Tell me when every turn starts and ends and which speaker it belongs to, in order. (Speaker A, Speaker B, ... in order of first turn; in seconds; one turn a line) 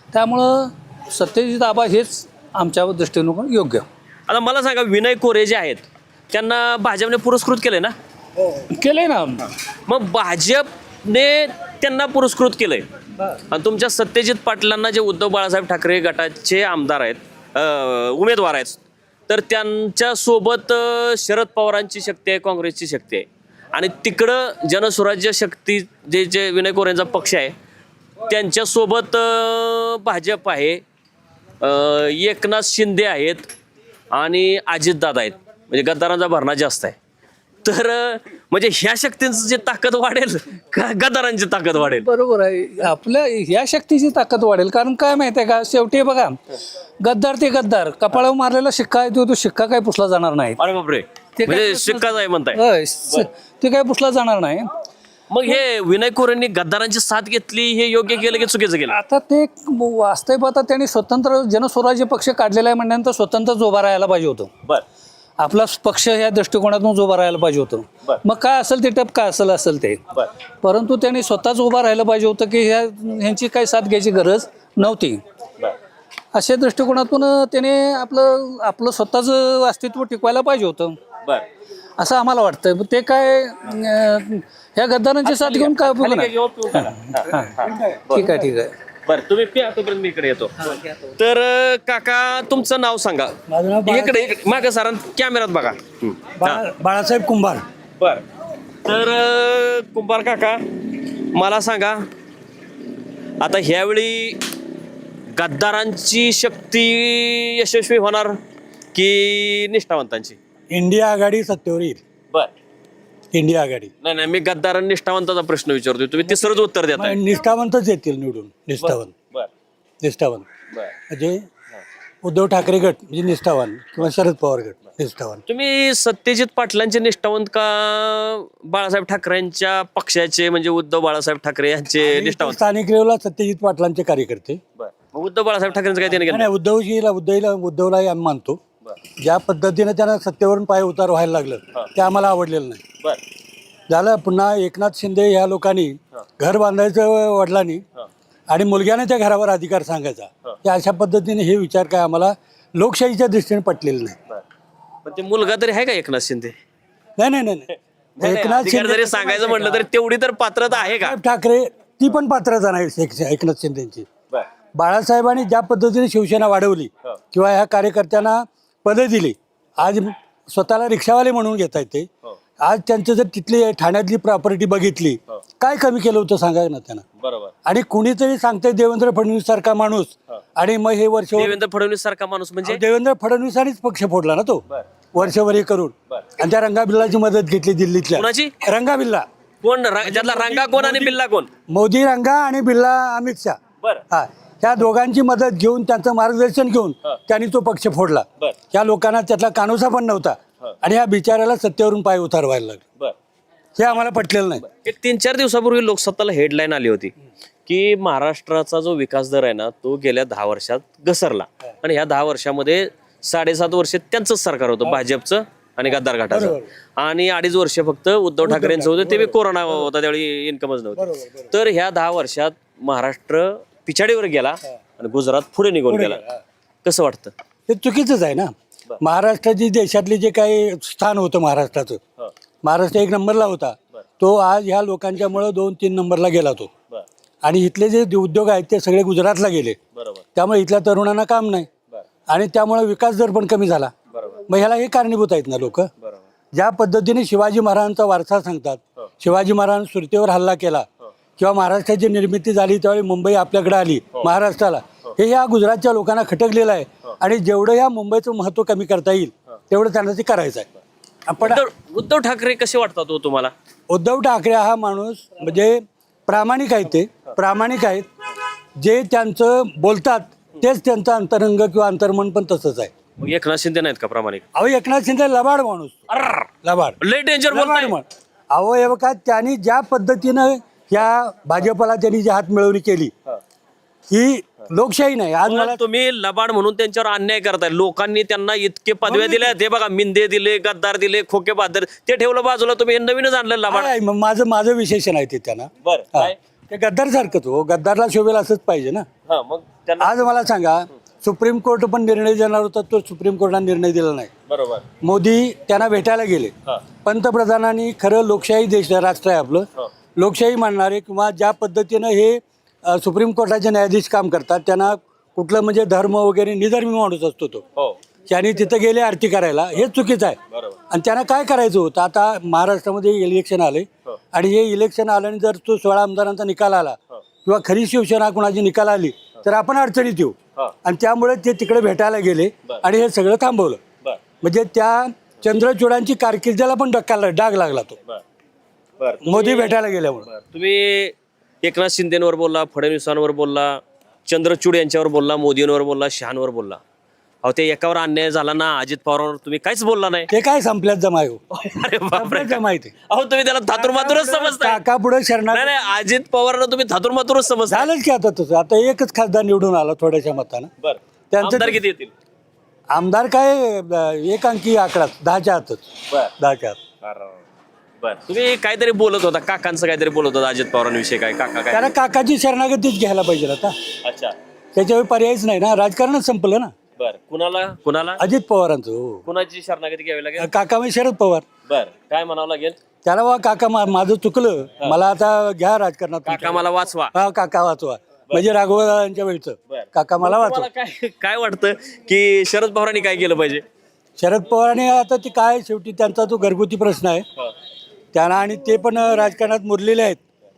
Speaker A: 0.1-3.9
Speaker B: 4.3-7.9
Speaker A: 8.7-9.4
Speaker B: 9.8-12.8
Speaker B: 13.5-27.5
Speaker B: 28.2-30.8
Speaker B: 31.6-33.5
Speaker B: 34.1-37.0
Speaker B: 37.6-42.1
Speaker A: 41.8-46.4
Speaker A: 47.0-50.6
Speaker B: 50.6-53.3
Speaker A: 51.4-54.7
Speaker B: 55.3-59.0
Speaker A: 58.9-64.5
Speaker A: 65.4-70.0
Speaker A: 70.6-75.2
Speaker A: 76.3-81.0
Speaker A: 82.0-87.6
Speaker B: 85.2-88.3
Speaker A: 88.1-88.7
Speaker B: 89.0-96.6
Speaker C: 93.5-94.2
Speaker C: 96.4-97.6
Speaker B: 98.0-98.2
Speaker B: 98.8-100.6
Speaker B: 101.2-102.0
Speaker B: 103.4-104.4
Speaker B: 105.3-108.4
Speaker B: 108.9-110.4
Speaker C: 110.7-112.0
Speaker C: 113.3-113.9
Speaker B: 114.0-117.2
Speaker C: 116.3-119.1
Speaker B: 118.8-119.5
Speaker C: 120.0-120.5
Speaker C: 121.1-121.4
Speaker C: 122.2-125.4
Speaker B: 125.5-132.6
Speaker C: 132.0-134.6
Speaker B: 134.8-136.5
Speaker C: 136.2-138.6
Speaker C: 139.2-142.8
Speaker C: 143.9-147.8
Speaker C: 148.5-154.2
Speaker B: 155.0-156.6
Speaker C: 157.2-157.7
Speaker B: 158.2-161.2
Speaker C: 158.2-159.8
Speaker C: 160.9-164.1
Speaker C: 164.7-172.1
Speaker C: 172.6-177.0
Speaker B: 177.2-177.5
Speaker C: 177.7-181.6
Speaker B: 181.3-182.8
Speaker C: 182.6-184.6
Speaker B: 184.7-185.3
Speaker C: 185.1-189.3
Speaker B: 188.1-188.6
Speaker B: 189.6-191.5
Speaker C: 190.0-191.1
Speaker C: 191.7-193.6
Speaker C: 194.1-202.8
Speaker C: 203.8-204.6
Speaker B: 204.6-207.1
Speaker B: 207.7-226.2
Speaker C: 216.3-216.6
Speaker C: 218.4-219.3
Speaker C: 221.0-221.4
Speaker C: 225.9-226.3
Speaker B: 226.8-227.3
Speaker C: 227.7-232.0
Speaker C: 232.6-236.7
Speaker C: 237.4-239.8
Speaker B: 239.9-240.2
Speaker C: 240.3-241.7
Speaker C: 242.3-243.9
Speaker B: 244.1-244.4
Speaker C: 244.5-245.9
Speaker B: 246.0-246.2
Speaker C: 246.5-250.8
Speaker C: 251.4-260.7
Speaker C: 261.3-261.6
Speaker B: 261.4-263.5
Speaker C: 263.9-268.1
Speaker C: 268.8-272.9
Speaker B: 273.2-274.4
Speaker C: 274.5-276.0
Speaker B: 276.1-276.5
Speaker C: 276.6-277.0
Speaker B: 277.0-277.9
Speaker C: 277.5-283.1
Speaker C: 284.1-285.8
Speaker B: 285.4-293.9
Speaker C: 289.1-289.5
Speaker C: 293.7-299.1
Speaker B: 295.8-296.4
Speaker B: 299.3-300.3
Speaker C: 300.0-304.3
Speaker B: 304.5-304.9
Speaker C: 305.0-309.6
Speaker C: 310.2-317.6
Speaker C: 318.3-320.4
Speaker B: 320.5-320.8
Speaker C: 320.9-333.8
Speaker C: 334.4-338.0
Speaker B: 339.0-346.8
Speaker C: 339.2-340.3
Speaker B: 347.4-350.3
Speaker C: 350.3-351.4
Speaker B: 351.5-354.8
Speaker C: 352.1-352.9
Speaker C: 353.7-355.7
Speaker B: 355.5-357.9
Speaker C: 357.7-360.7
Speaker B: 360.8-362.1
Speaker C: 361.3-361.8
Speaker C: 362.9-365.8
Speaker C: 366.4-366.8
Speaker B: 367.0-367.4
Speaker B: 368.0-371.9
Speaker C: 371.7-373.7
Speaker B: 374.0-374.4
Speaker C: 374.7-376.7
Speaker B: 377.0-378.2
Speaker C: 378.2-379.2
Speaker B: 379.2-380.5
Speaker C: 380.4-381.4
Speaker B: 381.7-382.8
Speaker C: 383.0-390.7
Speaker B: 386.2-387.1
Speaker B: 389.7-393.6
Speaker C: 394.2-397.2
Speaker C: 398.1-400.2